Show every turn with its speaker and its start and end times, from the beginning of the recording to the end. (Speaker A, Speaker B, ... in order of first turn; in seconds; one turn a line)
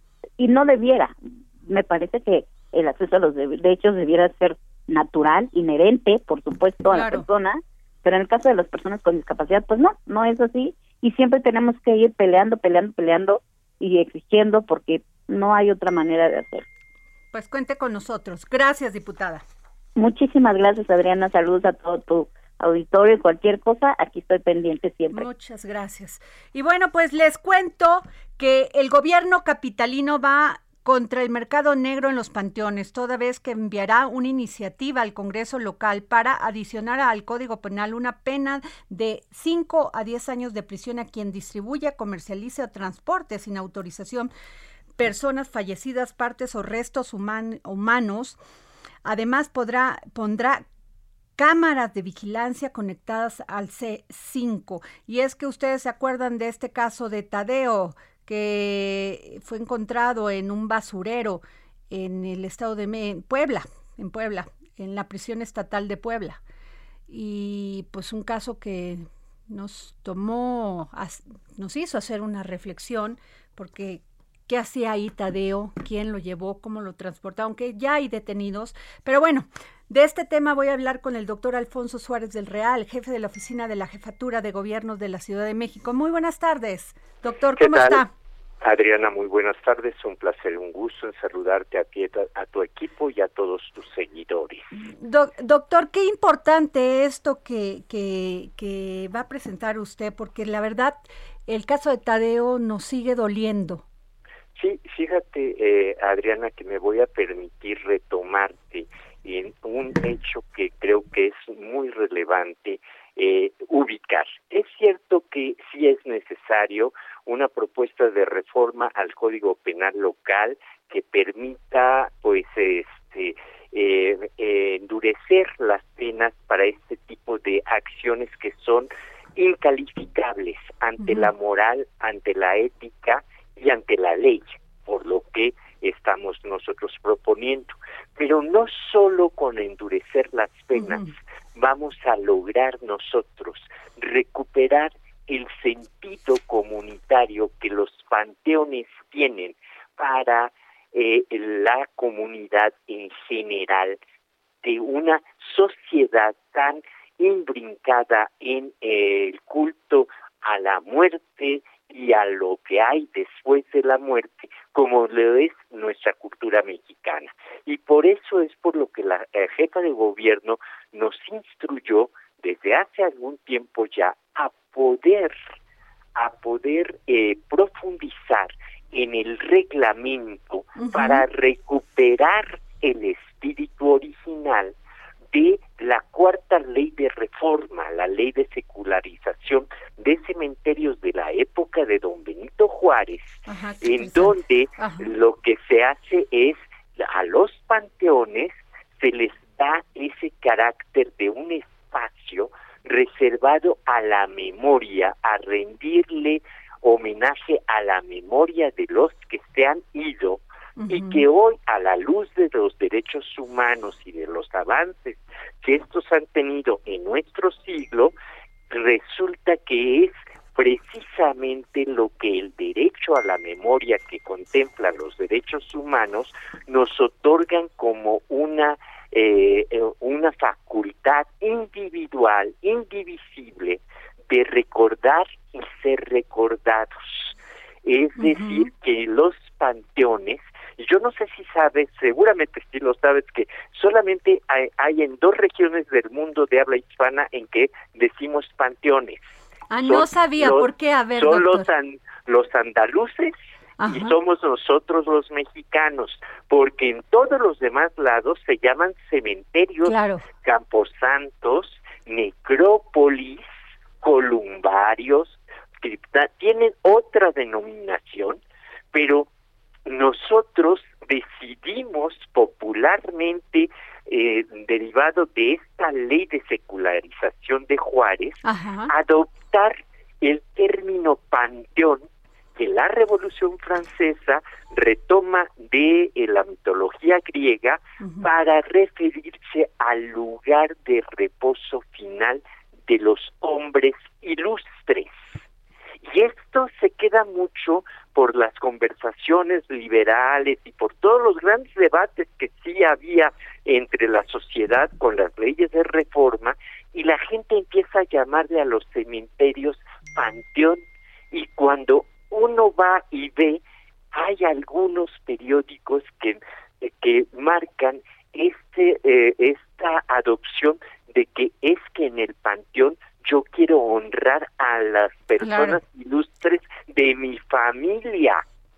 Speaker A: 0.4-16.6
Speaker B: 6.9-7.2
Speaker B: 17.3-19.4
Speaker A: 20.0-25.3
Speaker B: 25.1-44.3
Speaker B: 45.0-48.4
Speaker B: 49.0-50.6
Speaker B: 51.4-66.4
Speaker B: 67.1-88.1
Speaker C: 87.6-88.0
Speaker C: 88.6-94.7
Speaker B: 95.0-103.8
Speaker C: 104.5-154.0
Speaker B: 131.0-131.3
Speaker B: 140.8-141.1
Speaker C: 154.6-175.3
Speaker C: 176.2-184.7
Speaker B: 180.8-181.2
Speaker C: 185.3-218.1
Speaker B: 193.5-195.1
Speaker B: 210.8-211.2
Speaker C: 218.7-249.2
Speaker B: 238.2-238.7
Speaker B: 249.7-251.7
Speaker C: 249.9-253.3
Speaker B: 253.8-254.1
Speaker C: 253.9-263.4
Speaker B: 259.9-260.2
Speaker C: 264.0-268.4
Speaker C: 268.9-269.3
Speaker C: 269.9-282.0
Speaker B: 278.4-278.9
Speaker C: 282.6-295.3
Speaker B: 288.0-288.3
Speaker C: 296.0-310.8
Speaker C: 311.3-313.6
Speaker C: 314.1-328.4
Speaker B: 325.4-325.8